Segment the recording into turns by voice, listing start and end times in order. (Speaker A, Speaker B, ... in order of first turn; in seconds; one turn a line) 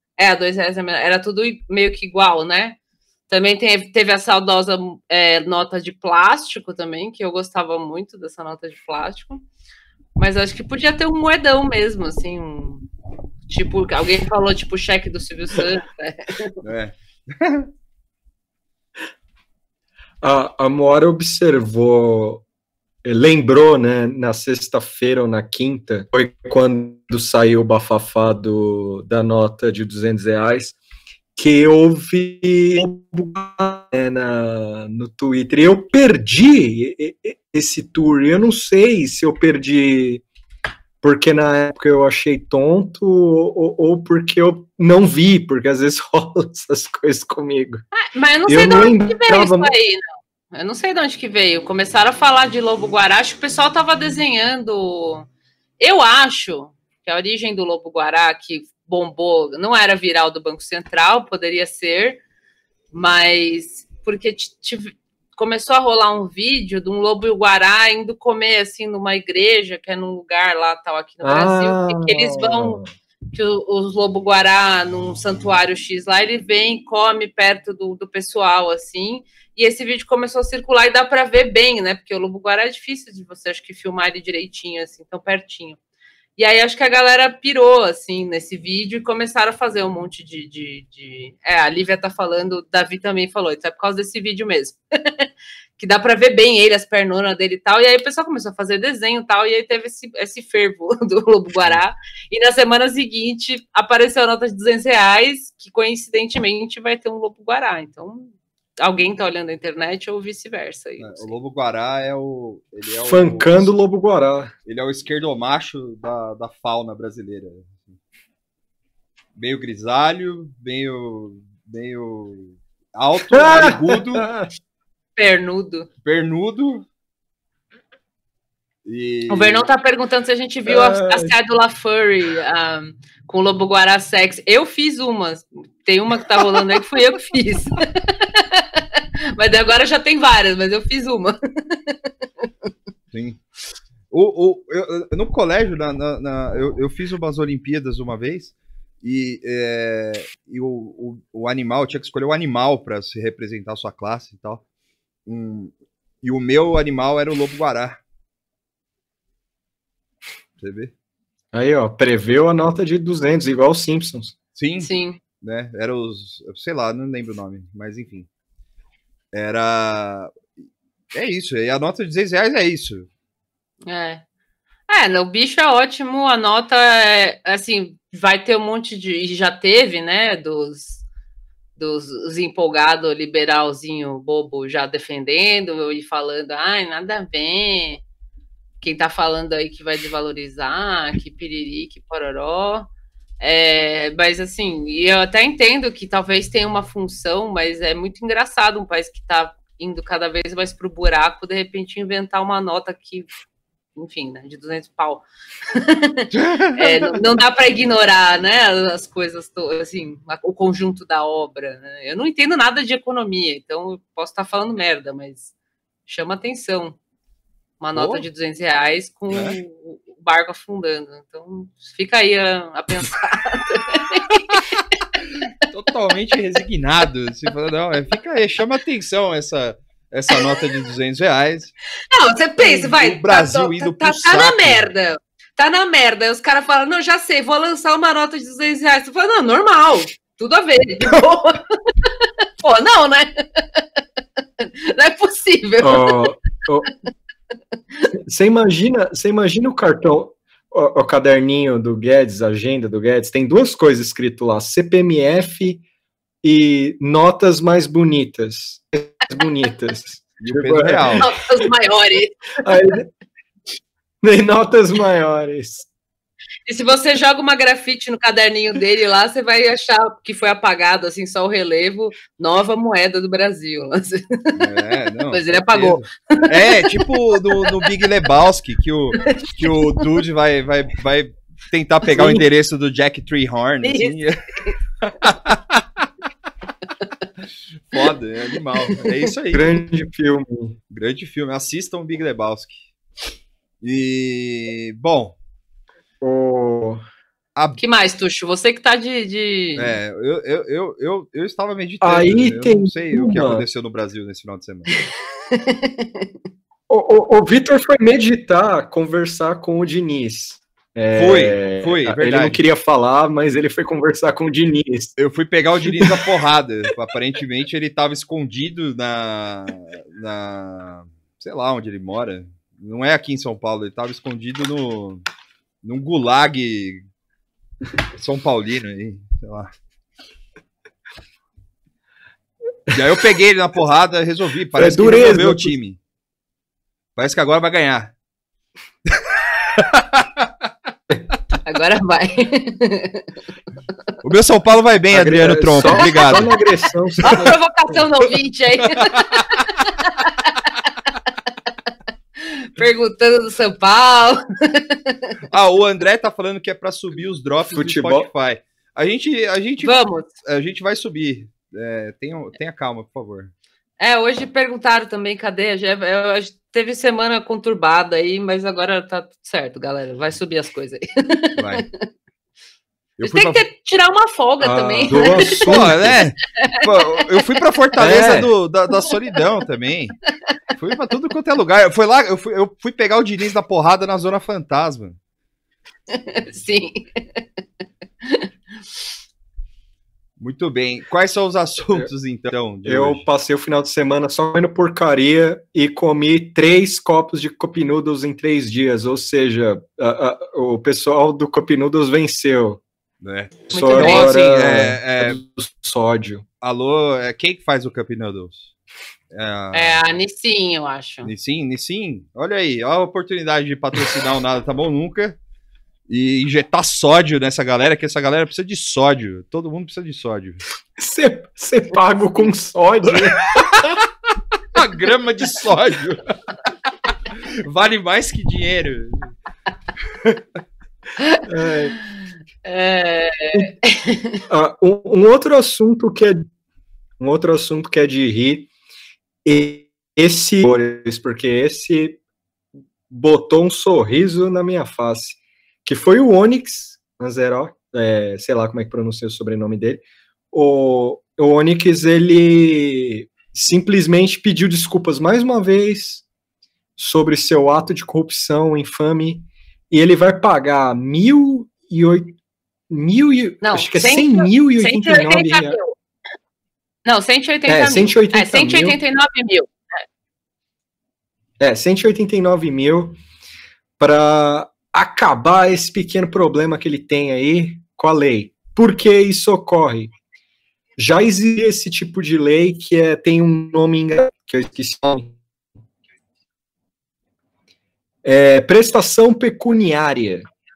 Speaker A: 0.2-2.8
Speaker A: 3.3-9.4
Speaker A: 10.2-12.9
Speaker A: 13.5-16.6
Speaker B: 16.6-17.7
Speaker C: 20.2-22.4
Speaker C: 23.0-30.8
Speaker C: 31.4-40.2
Speaker C: 41.0-47.8
Speaker A: 48.0-50.0
Speaker C: 48.5-49.7
Speaker A: 50.5-55.3
Speaker A: 55.8-62.2
Speaker A: 62.9-72.8
Speaker C: 71.2-72.9
Speaker A: 73.3-85.8
Speaker A: 86.4-95.3
Speaker A: 95.8-111.3
Speaker B: 111.0-113.7
Speaker C: 113.0-114.5
Speaker B: 114.7-118.0
Speaker B: 119.4-124.3
Speaker C: 123.3-124.5
Speaker A: 125.2-125.9
Speaker B: 126.0-126.9
Speaker B: 128.8-129.7
Speaker A: 129.3-142.0
Speaker C: 130.7-131.3
Speaker B: 143.1-143.4
Speaker B: 144.1-154.6
Speaker B: 155.3-158.0
Speaker B: 160.6-160.9
Speaker C: 161.5-164.3
Speaker B: 164.6-164.9
Speaker A: 164.8-165.2
Speaker B: 165.4-168.3
Speaker B: 169.3-170.3
Speaker B: 171.1-173.1
Speaker A: 173.9-174.2
Speaker A: 174.9-181.0
Speaker A: 181.8-188.0
Speaker A: 188.8-192.9
Speaker A: 193.4-203.3
Speaker A: 204.0-215.5
Speaker B: 206.3-207.2
Speaker A: 216.1-217.0
Speaker A: 217.8-224.6
Speaker B: 217.9-218.3
Speaker B: 219.3-219.6
Speaker B: 225.6-231.7
Speaker A: 232.1-241.6
Speaker B: 232.6-234.9
Speaker A: 242.6-243.8
Speaker A: 244.6-246.3
Speaker C: 245.8-246.9
Speaker C: 248.2-255.8
Speaker C: 256.4-261.2
Speaker B: 260.4-261.3
Speaker A: 261.2-262.3
Speaker C: 262.6-263.1
Speaker C: 264.2-265.9
Speaker A: 266.7-274.6
Speaker B: 274.6-284.5
Speaker A: 275.3-277.4
Speaker C: 282.1-282.4
Speaker A: 283.8-284.8
Speaker B: 285.2-286.1
Speaker B: 287.8-289.8
Speaker C: 289.5-290.8
Speaker B: 290.9-292.8
Speaker B: 293.8-295.4
Speaker C: 296.2-297.0
Speaker A: 297.8-300.0
Speaker B: 299.8-305.0
Speaker C: 302.0-303.6
Speaker A: 305.5-306.3
Speaker C: 306.9-315.2
Speaker B: 311.1-312.6
Speaker B: 315.2-325.2
Speaker C: 315.9-316.2
Speaker B: 325.8-327.0
Speaker B: 328.1-329.7
Speaker B: 332.9-336.0
Speaker C: 334.8-335.7
Speaker B: 337.2-338.1
Speaker B: 339.1-340.5
Speaker A: 341.6-343.2
Speaker B: 344.2-346.6
Speaker C: 345.1-347.5
Speaker A: 347.2-350.6
Speaker B: 349.0-349.4
Speaker A: 352.4-355.3
Speaker B: 355.5-363.5
Speaker C: 357.7-358.3
Speaker A: 359.8-360.3
Speaker A: 364.0-371.8
Speaker B: 371.6-371.9
Speaker B: 373.2-373.6
Speaker A: 373.2-375.7
Speaker C: 374.6-376.2
Speaker B: 375.1-380.2
Speaker C: 378.0-378.5
Speaker B: 380.8-385.2
Speaker A: 386.1-387.4
Speaker B: 390.4-393.2
Speaker C: 392.9-402.8
Speaker B: 403.2-405.4
Speaker C: 403.7-406.4
Speaker A: 403.7-404.3
Speaker B: 406.6-408.7
Speaker B: 409.3-410.0
Speaker A: 409.7-411.3
Speaker B: 411.2-415.4
Speaker B: 416.1-420.6
Speaker C: 421.0-423.4
Speaker B: 423.6-423.8
Speaker B: 424.8-426.3
Speaker B: 427.6-429.3
Speaker C: 431.5-431.9
Speaker A: 432.6-434.4
Speaker C: 434.5-436.5
Speaker C: 437.2-438.7
Speaker C: 439.4-442.2
Speaker C: 443.1-456.2
Speaker C: 457.0-462.4
Speaker C: 462.9-465.8
Speaker A: 463.6-465.9
Speaker A: 467.1-470.0
Speaker C: 467.7-469.0
Speaker C: 471.6-473.2
Speaker C: 474.0-480.1
Speaker C: 481.0-485.4
Speaker C: 488.2-490.5